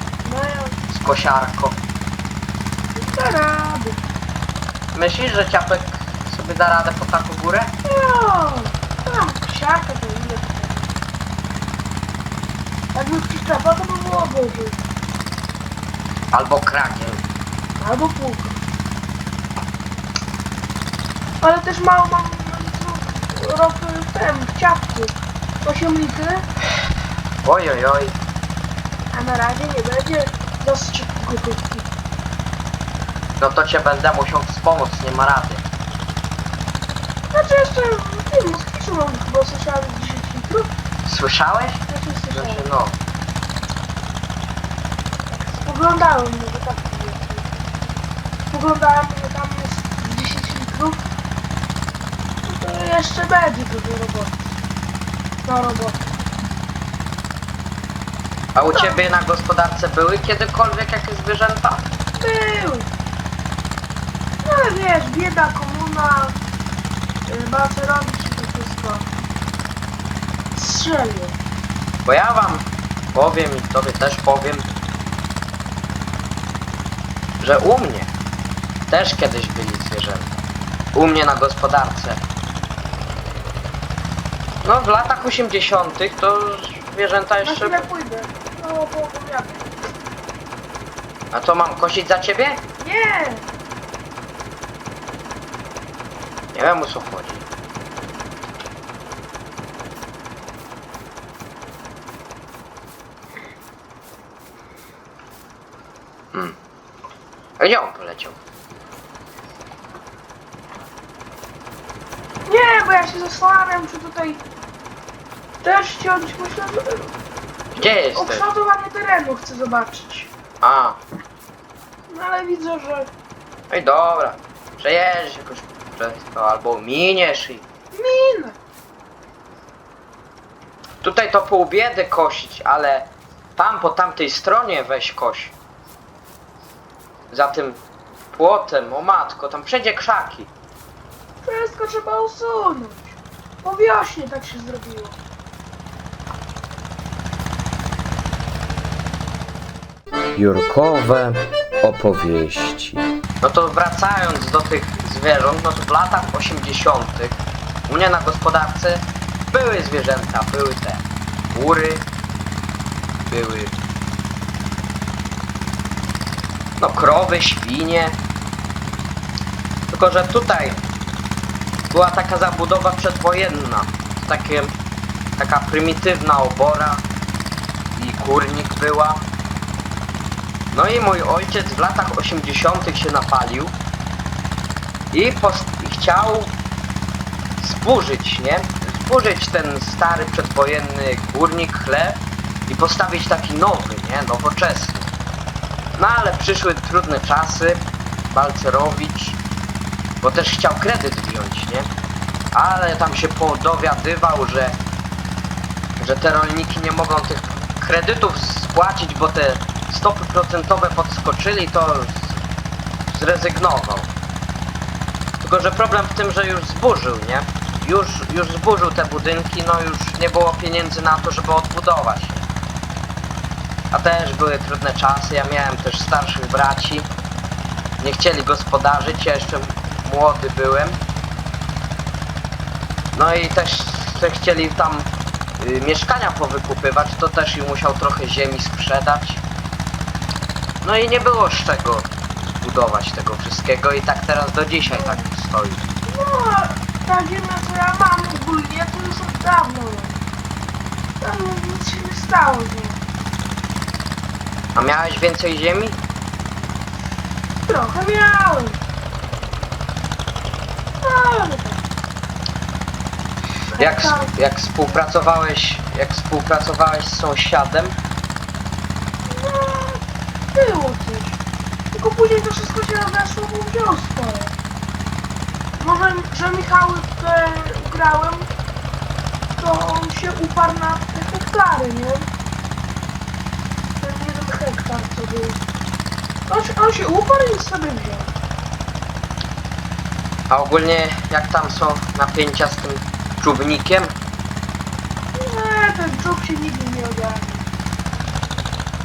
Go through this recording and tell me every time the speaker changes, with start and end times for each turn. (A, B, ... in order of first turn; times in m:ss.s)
0:00.2-0:00.8 A
0:00.9-0:01.8 B
0:02.9-0:04.0 A
0:04.9-0:07.7 B
0:07.8-0:10.9 A
0:12.9-0:14.8 A
0:16.3-0:17.2 B
0:17.8-0:18.6 A
0:21.4-0:26.4 A
0:27.4-0:28.2 B
0:29.1-0:31.9 A
0:33.4-0:35.6 B
0:37.3-0:40.7 A
0:41.0-0:41.8 B
0:41.9-0:42.7 A
0:42.3-0:43.0 B
0:45.6-0:47.5 A
0:48.5-0:51.0 A
0:52.4-0:54.6 A
0:55.4-0:56.0 A
0:58.5-1:01.9 B
0:58.7-0:59.0 A
1:02.2-1:02.9 A
1:04.4-1:06.4 A
1:07.3-1:09.1 A
1:10.5-1:11.4 A
1:12.0-1:14.7 B
1:17.4-1:18.1 B
1:18.9-1:20.3 B
1:20.9-1:22.2 B
1:24.6-1:27.8 B
1:27.4-1:29.8 A
1:31.3-1:32.6 B
1:32.8-1:33.4 A
1:36.5-1:37.4 B
1:47.6-1:48.4 B
1:52.4-1:54.4 A
1:55.6-1:57.1 A
1:57.7-1:58.4 B
1:58.1-2:00.3 A
2:00.6-2:01.0 B
2:02.1-2:03.1 A
2:03.7-2:07.6 B
2:07.9-2:08.6 A
2:11.0-2:15.5 B
2:17.3-2:17.8 B
2:18.3-2:20.5 B
2:21.4-2:25.2 A
2:30.3-2:42.0 B
2:43.2-2:43.8 B
2:46.8-2:48.2 B
2:49.9-2:50.8 B
2:51.9-2:54.7 B
2:55.4-2:57.0 B
2:57.9-2:59.2 B
3:00.7-3:03.7 B
3:05.1-3:06.5 B
3:07.6-3:15.1 B
3:15.9-3:19.4 B
3:20.2-3:21.9 B
3:22.5-3:24.8 B
3:26.0-3:32.4 B
3:33.1-3:34.1 B
3:35.4-3:42.4 B
3:43.9-3:47.1 B
3:48.0-3:51.0 B
3:53.1-3:59.4 B
4:00.8-4:05.9 B
4:04.8-4:05.2 A
4:06.0-4:10.1 A
4:11.2-4:13.0 A
4:14.7-4:16.0 B
4:17.6-4:18.8 A
4:21.0-4:21.8 A
4:23.7-4:24.3 A
4:23.8-4:28.0 B
4:29.2-4:30.0 A
4:30.5-4:31.4 A
4:31.9-4:34.6 A
4:35.8-4:38.5 A
4:39.6-4:42.3 A
4:44.0-4:45.6 A
4:46.5-4:48.3 A
4:50.5-4:54.1 B
4:55.3-4:57.6 A